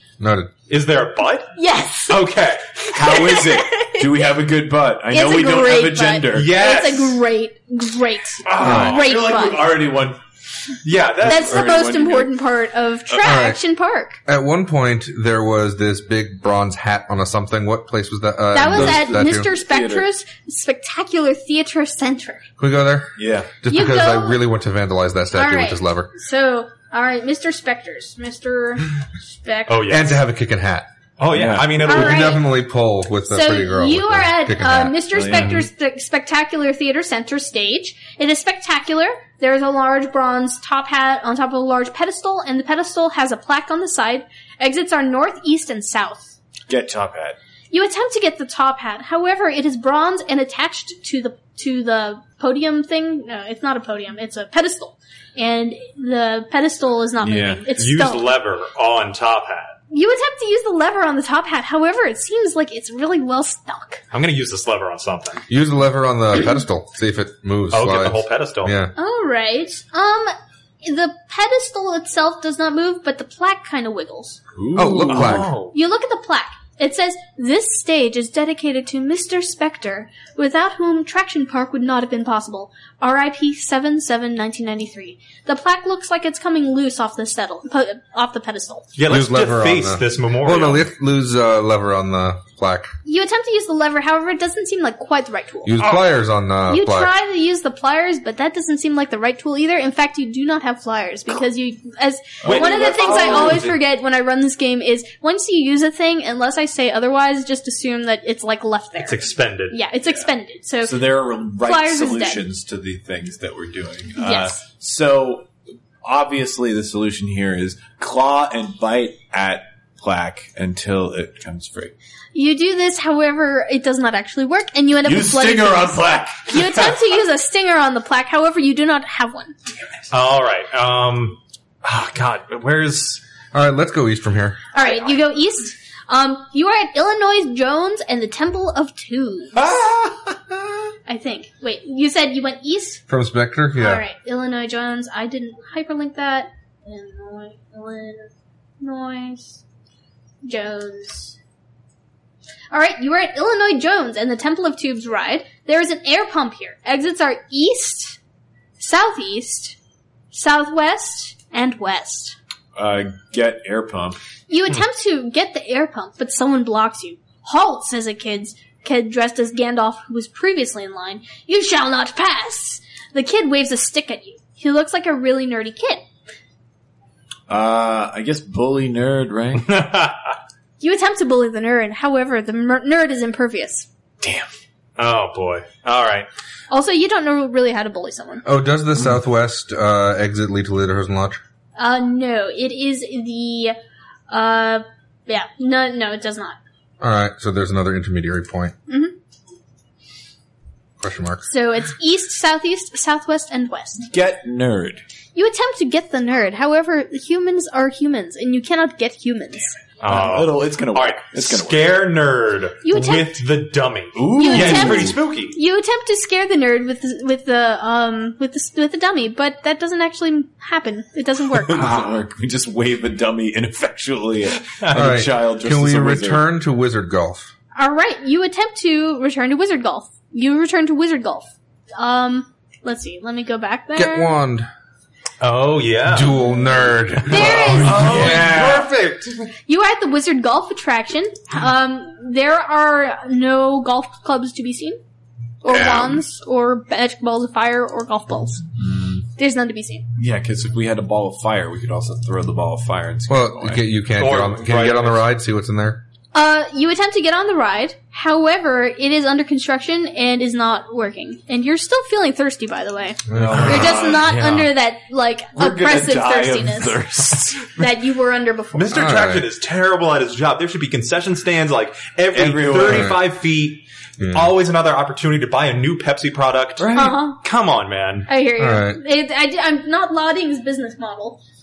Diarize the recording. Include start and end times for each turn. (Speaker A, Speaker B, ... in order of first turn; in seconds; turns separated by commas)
Speaker A: 0.2-0.5, Speaker B: 0.7-1.5, Speaker C: 1.6-2.2, Speaker B: 2.1-2.8, Speaker D: 2.9-6.5, Speaker C: 3.0-4.2, Speaker C: 5.1-9.8, Speaker B: 6.3-7.2, Speaker D: 8.4-10.2, Speaker B: 8.5-8.9, Speaker A: 8.6-9.0, Speaker B: 10.8-11.9, Speaker D: 11.2-12.3, Speaker C: 11.2-14.2, Speaker A: 13.2-13.6, Speaker A: 14.3-19.5, Speaker C: 18.5-22.4, Speaker D: 18.7-20.1, Speaker A: 22.6-26.1, Speaker D: 23.2-23.5, Speaker C: 23.7-24.4, Speaker C: 25.3-28.9, Speaker C: 29.4-30.0, Speaker B: 29.7-30.2, Speaker A: 29.9-30.9, Speaker B: 31.2-32.4, Speaker D: 31.3-31.9, Speaker A: 31.8-35.5, Speaker C: 31.9-32.5, Speaker C: 33.3-46.4, Speaker D: 35.1-35.7, Speaker D: 46.7-47.4, Speaker C: 47.7-58.3, Speaker D: 57.2-57.7, Speaker B: 57.8-59.8, Speaker C: 59.9-64.0, Speaker B: 64.1-65.4, Speaker A: 65.5-68.9, Speaker B: 67.7-68.8, Speaker C: 69.0-74.4, Speaker D: 74.5-75.5, Speaker A: 74.7-75.5, Speaker B: 75.1-75.8, Speaker C: 75.7-88.9, Speaker B: 89.0-90.9, Speaker A: 89.1-92.9, Speaker C: 93.0-95.8, Speaker A: 95.7-97.1, Speaker C: 96.7-112.4, Speaker D: 102.4-103.8, Speaker B: 102.4-103.7, Speaker B: 109.0-109.8, Speaker D: 110.8-115.5, Speaker C: 114.2-114.6, Speaker D: 116.0-121.9, Speaker C: 122.3-129.5, Speaker D: 125.0-126.9, Speaker B: 130.1-133.2, Speaker A: 133.5-134.6, Speaker C: 134.7-139.6, Speaker C: 141.1-143.0, Speaker A: 143.1-144.0, Speaker C: 143.8-149.6, Speaker C: 150.4-151.4, Speaker C: 152.7-158.2, Speaker C: 158.8-159.8, Speaker C: 160.3-162.4, Speaker D: 162.8-164.2, Speaker C: 164.5-176.0, Speaker D: 177.5-179.7, Speaker B: 179.6-180.3, Speaker C: 180.8-183.9, Speaker D: 184.2-184.5, Speaker B: 185.0-186.3, Speaker C: 186.7-188.4, Speaker A: 188.4-191.4, Speaker C: 191.8-193.8, Speaker C: 194.3-196.6, Speaker A: 197.0-198.7, Speaker C: 198.9-199.2, Speaker A: 201.0-201.5, Speaker C: 201.4-204.1, Speaker D: 204.1-205.0, Speaker C: 205.3-209.8, Speaker B: 210.0-215.6, Speaker D: 210.1-212.0, Speaker C: 212.8-213.3, Speaker D: 214.2-215.2, Speaker C: 214.3-221.9, Speaker D: 221.6-226.4, Speaker A: 224.9-227.5, Speaker C: 227.8-234.3, Speaker A: 233.9-234.7, Speaker B: 235.4-236.4, Speaker A: 236.1-238.7, Speaker C: 237.3-238.1, Speaker B: 237.3-239.5, Speaker D: 237.5-238.9, Speaker C: 239.7-245.0, Speaker C: 245.6-248.6, Speaker A: 245.7-246.2, Speaker D: 248.8-249.2, Speaker C: 249.4-250.1, Speaker D: 250.2-253.8, Speaker A: 253.3-256.0, Speaker B: 254.2-255.2, Speaker C: 256.3-267.0, Speaker A: 263.3-264.0, Speaker D: 263.4-264.7, Speaker D: 265.6-267.9, Speaker C: 267.6-269.0, Speaker B: 268.7-278.3, Speaker A: 268.9-269.5, Speaker D: 272.3-273.1, Speaker A: 272.8-273.2, Speaker A: 274.2-274.5, Speaker D: 276.8-277.2, Speaker C: 276.9-277.4, Speaker C: 278.3-281.4, Speaker A: 278.6-279.0